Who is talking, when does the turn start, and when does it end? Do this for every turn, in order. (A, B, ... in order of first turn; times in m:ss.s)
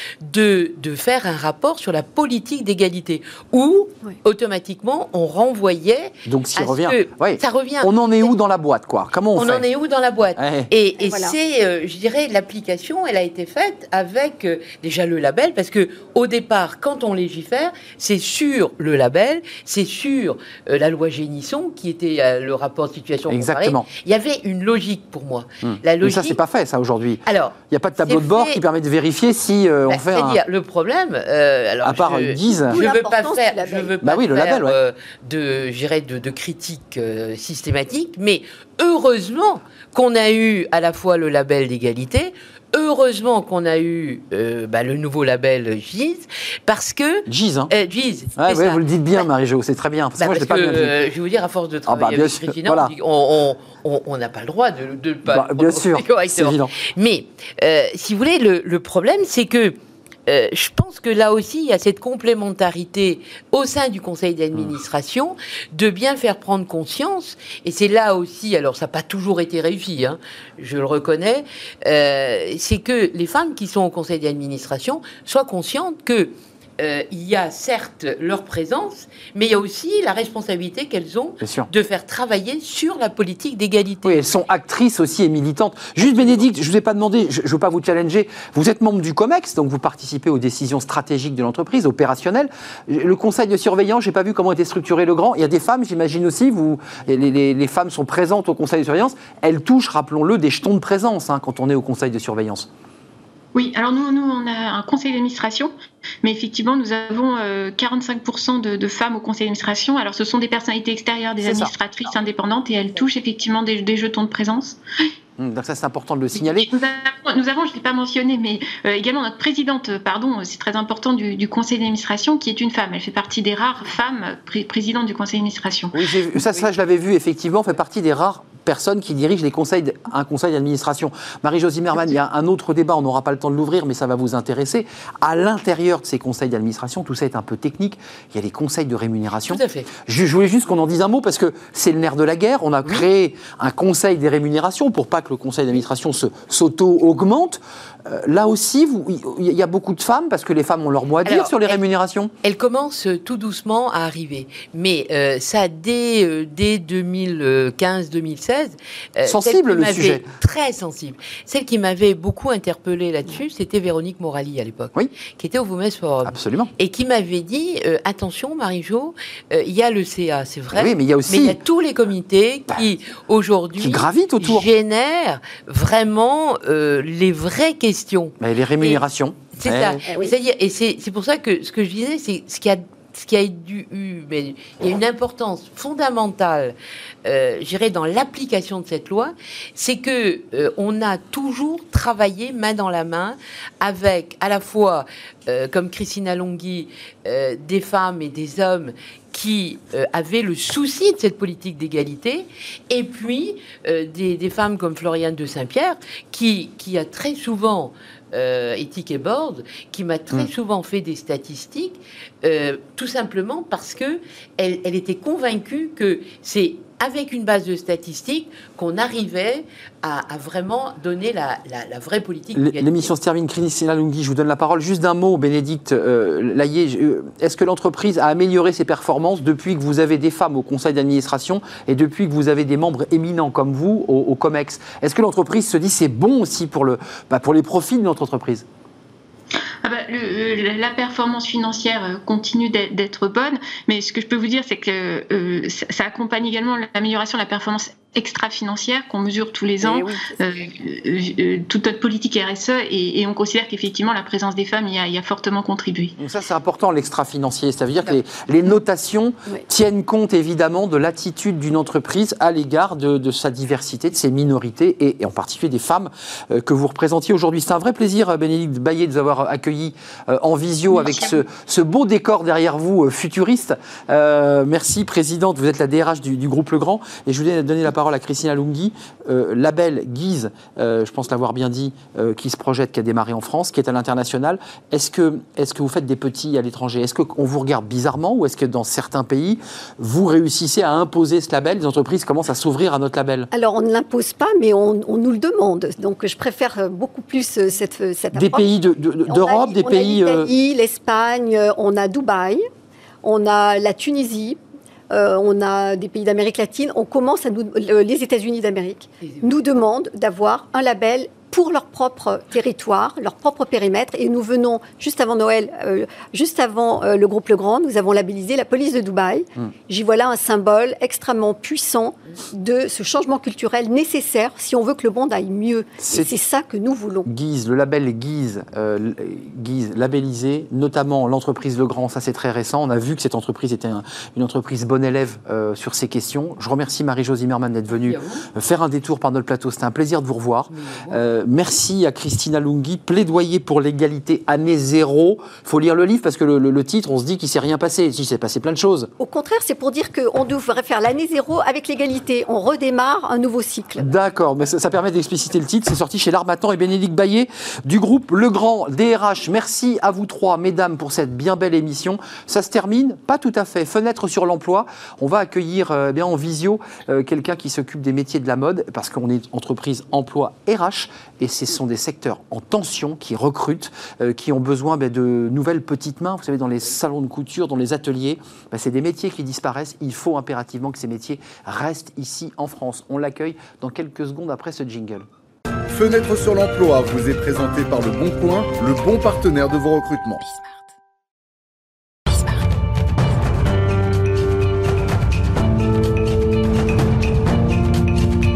0:00.2-0:08.3 A
0:06.3-0:09.7 B
0:09.4-0:26.4 A
0:10.4-0:10.7 B
0:11.0-0:11.4 C
0:23.3-0:23.9 B
0:25.6-0:30.4 B
0:27.2-0:28.6 A
0:29.9-0:49.3 A
0:31.8-0:32.8 B
0:32.7-0:34.0 C
0:34.0-0:34.8 B
0:47.3-0:47.7 B
0:48.4-0:51.0 B
0:50.2-1:24.2 A
0:51.9-0:52.9 B
0:55.3-0:56.7 B
1:21.4-1:21.7 B
1:24.0-1:42.7 B
1:26.0-1:26.5 A
1:43.5-1:45.7 D
1:46.2-1:54.8 D
1:51.4-1:51.7 B
1:55.4-1:56.7 B
1:56.4-2:06.0 D
2:05.9-2:32.3 B
2:19.4-2:20.0 A
2:31.2-2:31.8 A
2:32.4-2:59.0 A
2:39.2-2:40.3 B
2:46.2-2:46.7 B
2:50.7-2:51.6 B
2:53.8-2:54.7 B
2:58.4-3:00.0 B
2:59.5-3:43.1 A
3:00.1-3:00.3 C
3:42.6-3:58.7 B
3:59.8-4:16.2 D
4:09.8-4:10.3 B
4:16.2-4:53.5 B
4:53.5-4:58.7 C
4:58.4-5:00.5 B
4:59.3-5:02.6 C
5:03.2-5:04.6 C
5:05.1-5:27.3 C
5:09.2-5:09.5 A
5:26.0-5:26.3 B
5:27.3-5:49.1 B
5:38.0-5:38.5 A
5:40.7-5:41.3 A
5:49.2-5:54.1 C
5:54.0-6:25.3 B
6:25.9-6:30.4 E